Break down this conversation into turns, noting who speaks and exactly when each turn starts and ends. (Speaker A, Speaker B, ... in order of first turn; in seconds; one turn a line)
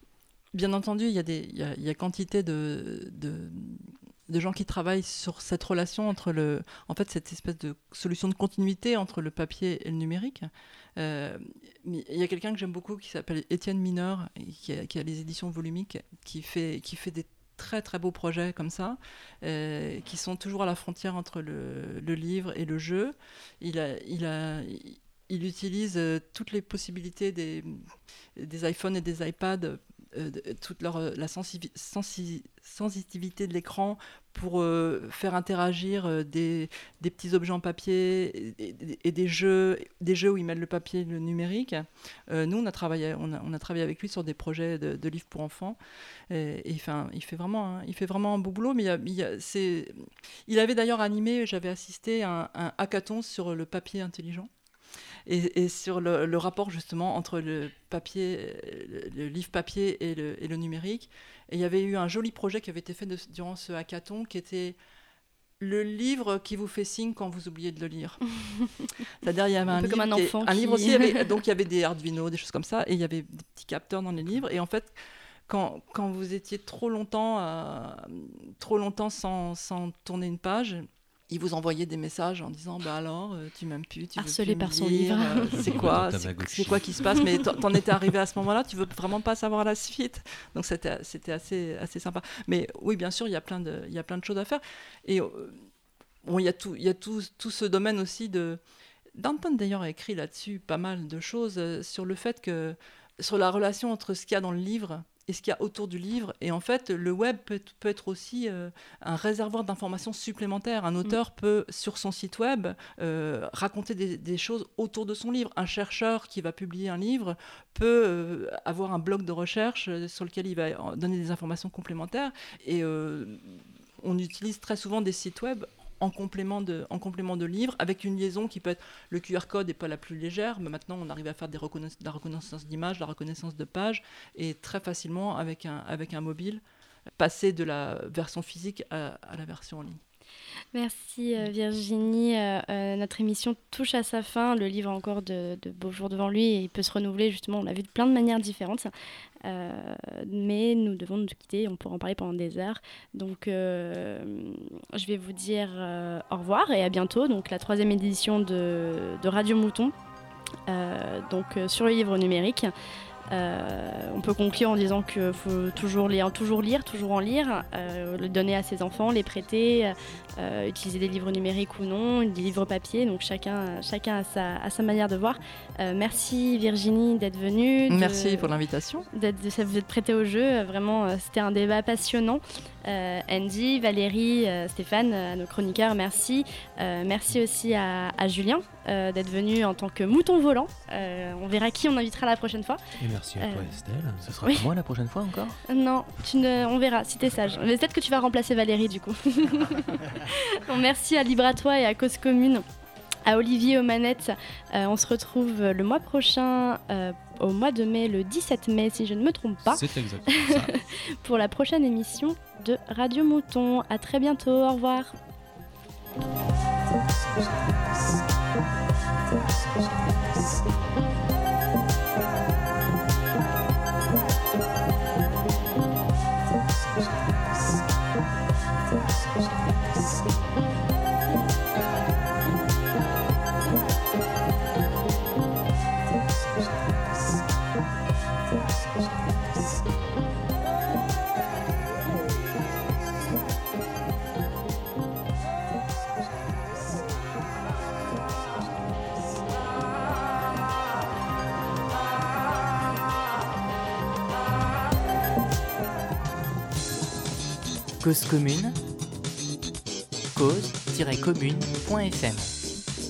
Speaker A: 0.5-45.8
Speaker A: 46.3-54.5
Speaker A: 55.3-64.8
Speaker A: 65.6-68.2
Speaker A: 69.2-74.9
Speaker B: 69.7-71.3
Speaker A: 75.5-95.7
Speaker B: 84.2-85.9
Speaker C: 85.8-86.8
Speaker A: 96.2-98.6
Speaker A: 99.2-136.6
Speaker A: 137.2-140.0
Speaker B: 140.7-148.9
Speaker B: 149.4-159.9
Speaker B: 160.7-162.7
Speaker B: 163.3-178.5
Speaker A: 177.9-179.1
Speaker B: 179.1-192.8
Speaker C: 193.0-193.9
Speaker B: 193.4-193.7
Speaker D: 194.2-195.6
Speaker B: 194.4-194.7
Speaker B: 195.7-202.7
Speaker B: 203.3-215.1
Speaker D: 209.8-210.7
Speaker C: 209.8-210.5
Speaker E: 258.0-258.8
Speaker E: 260.3-262.5